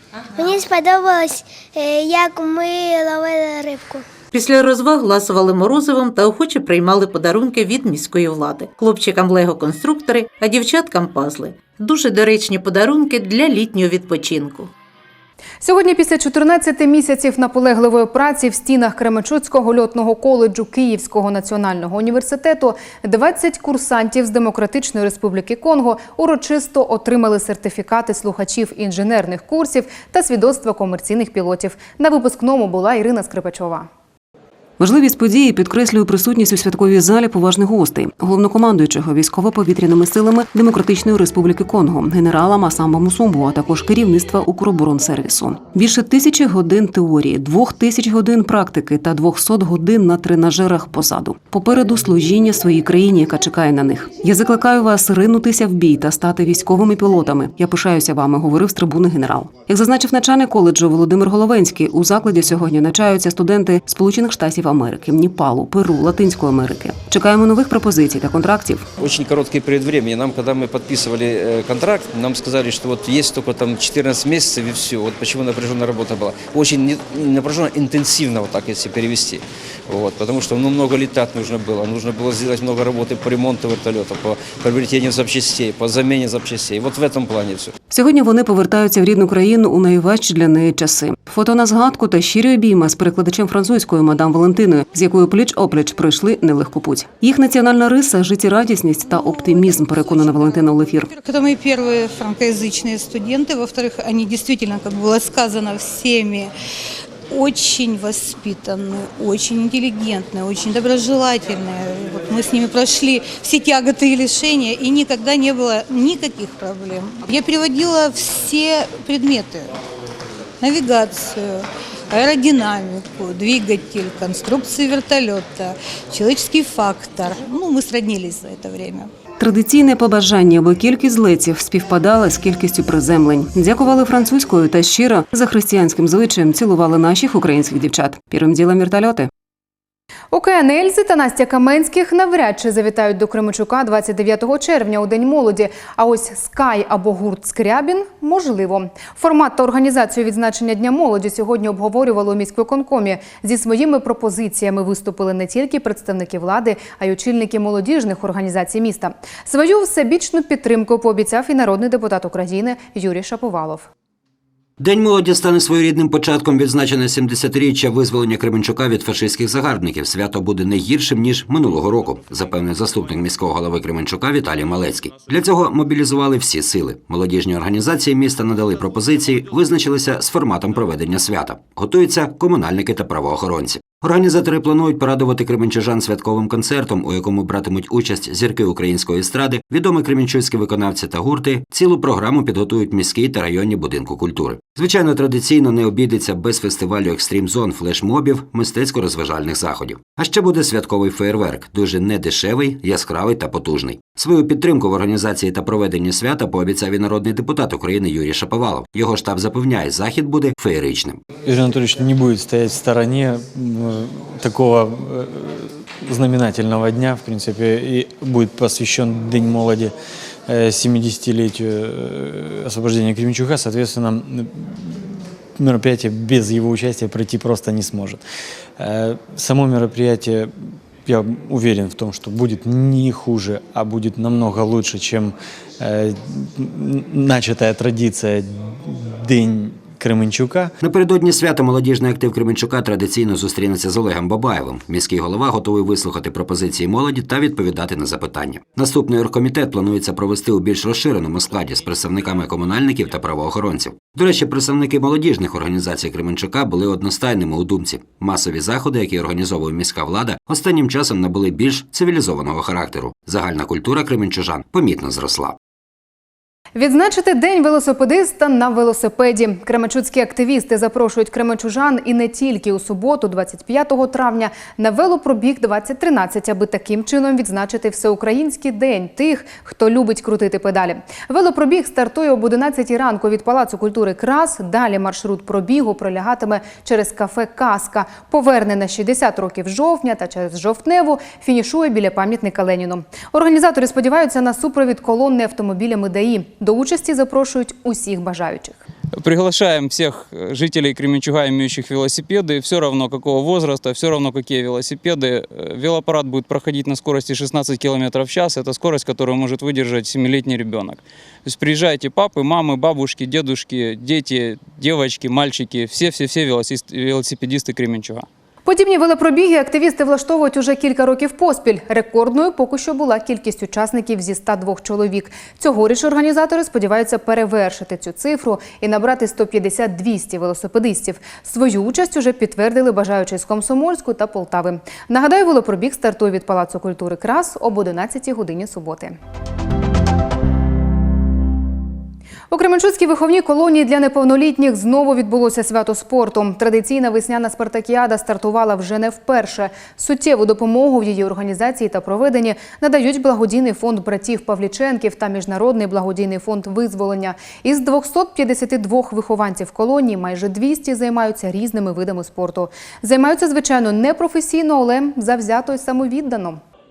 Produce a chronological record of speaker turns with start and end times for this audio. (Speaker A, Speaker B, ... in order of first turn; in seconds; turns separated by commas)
Speaker A: 0.4-4.0, Speaker B: 4.3-14.7, Speaker C: 15.6-33.9, Speaker D: 34.8-68.8, Speaker E: 69.0-87.7, Speaker D: 87.9-101.1, Speaker F: 99.0-106.5, Speaker F: 107.3-119.7, Speaker F: 120.6-129.1, Speaker D: 129.4-139.3, Speaker C: 140.3-163.9, Speaker G: 164.8-211.2, Speaker H: 211.4-219.9, Speaker H: 220.5-225.1, Speaker H: 225.6-228.2, Speaker H: 228.8-230.5, Speaker H: 231.0-240.7, Speaker G: 240.8-265.6, Speaker C: 266.8-298.8, Speaker I: 299.2-318.3, Speaker C: 318.6-339.1, Speaker C: 342.5-366.6